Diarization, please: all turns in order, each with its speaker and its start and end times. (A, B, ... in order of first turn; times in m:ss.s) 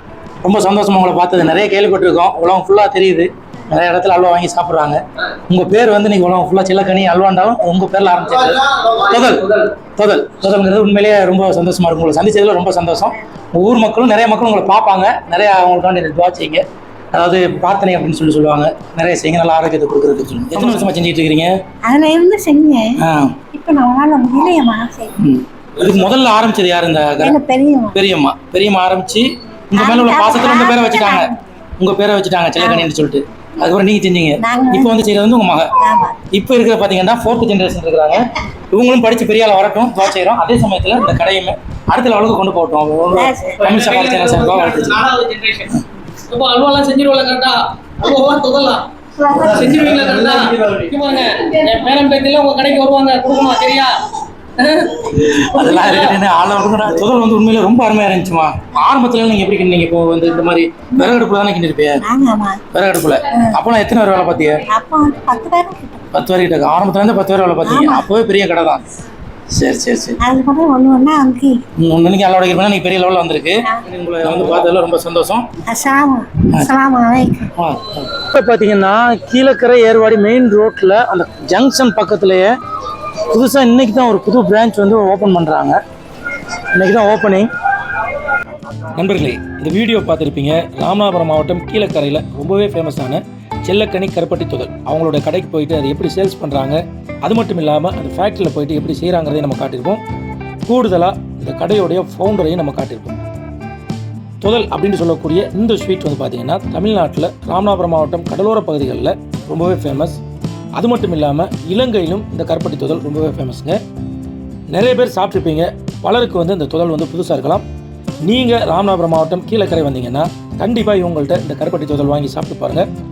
0:00.4-0:21.5 A
0:21.8-0:23.0 B
0:23.0-0:23.4 A
0:23.5-0:25.2 B
0:25.2-0:27.4 A
0:27.2-0:28.0 B
0:27.9-0:35.7 A
0:29.7-0:31.4 B
0:32.6-0:32.9 B
0:34.4-0:34.9 B
0:35.8-0:36.2 B
0:36.3-0:45.0 A
0:43.1-0:43.6 B
0:43.7-0:45.6 C
0:46.3-0:47.5 C
0:48.1-0:48.8 C
0:49.2-0:50.0 B
0:49.4-0:53.9 C
0:49.6-0:50.9 A
0:54.8-1:02.0 A
1:02.0-1:02.6 B
1:02.7-1:04.6 A
1:04.6-1:06.0 B
1:06.1-1:08.8 A
1:07.6-1:08.1 B
1:09.5-1:10.2 A
1:10.2-1:11.6 B
1:11.8-1:15.5 A
1:15.7-1:17.5 B
1:17.6-1:22.5 A
1:23.2-1:25.8 A
1:26.6-1:27.5 A
1:28.9-1:40.0 A
1:40.6-1:43.2 A
1:44.4-1:50.2 A
1:50.8-1:53.8 A
1:54.7-1:57.6 A
1:58.2-2:02.8 A